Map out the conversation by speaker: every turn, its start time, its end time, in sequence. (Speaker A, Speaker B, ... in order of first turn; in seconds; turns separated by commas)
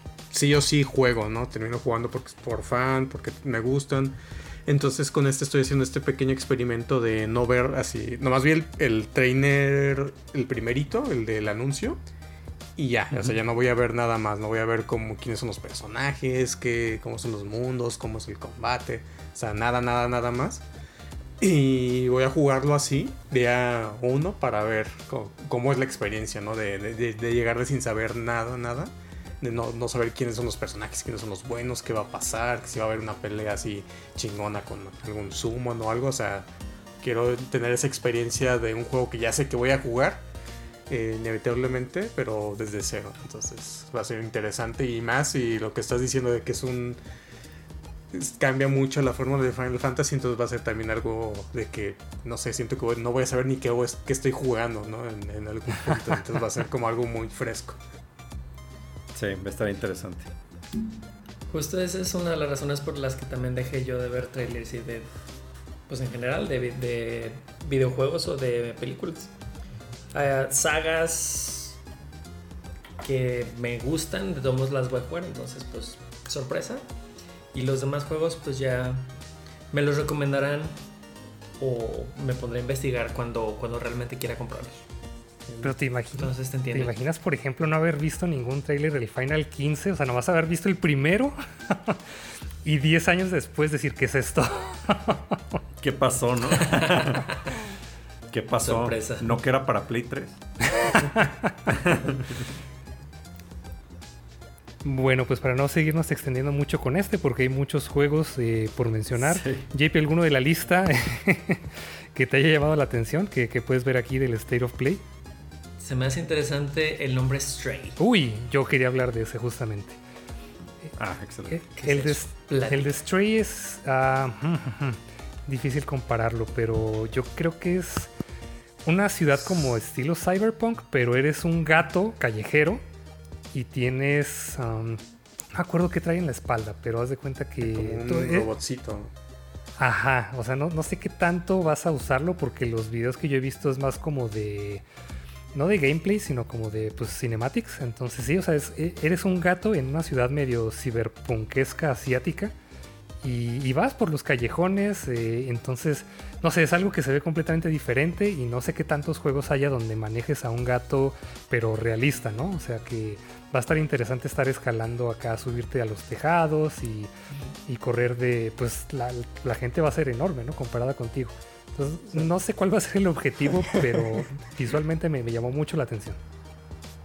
Speaker A: 0.3-12.0, Speaker A: 12.8-20.6, Speaker A: 21.4-36.5, Speaker A: 37.0-40.2, Speaker A: 40.9-47.0, Speaker A: 48.1-57.8, Speaker B: 59.1-60.3, Speaker C: 61.5-65.1, Speaker C: 65.9-69.3, Speaker C: 70.1-71.8, Speaker C: 73.0-76.8, Speaker C: 77.5-79.1, Speaker C: 79.7-80.8, Speaker C: 81.6-84.8, Speaker A: 85.5-85.7, Speaker D: 85.6-92.0, Speaker C: 86.2-86.9, Speaker D: 92.6-95.4, Speaker B: 95.8-97.3, Speaker C: 96.6-97.5, Speaker B: 98.3-100.4, Speaker C: 98.6-99.4, Speaker D: 100.8-101.5, Speaker B: 101.7-102.5, Speaker D: 104.8-115.0, Speaker B: 109.2-109.7, Speaker C: 115.8-118.0, Speaker D: 118.0-120.0, Speaker B: 121.0-121.6, Speaker D: 121.5-128.1, Speaker C: 121.8-122.9, Speaker D: 128.8-132.8, Speaker D: 133.5-135.0, Speaker D: 135.5-138.5, Speaker A: 137.6-139.1, Speaker D: 139.8-144.8, Speaker D: 145.5-152.5, Speaker D: 153.2-167.1, Speaker D: 167.7-176.2, Speaker A: 173.7-174.2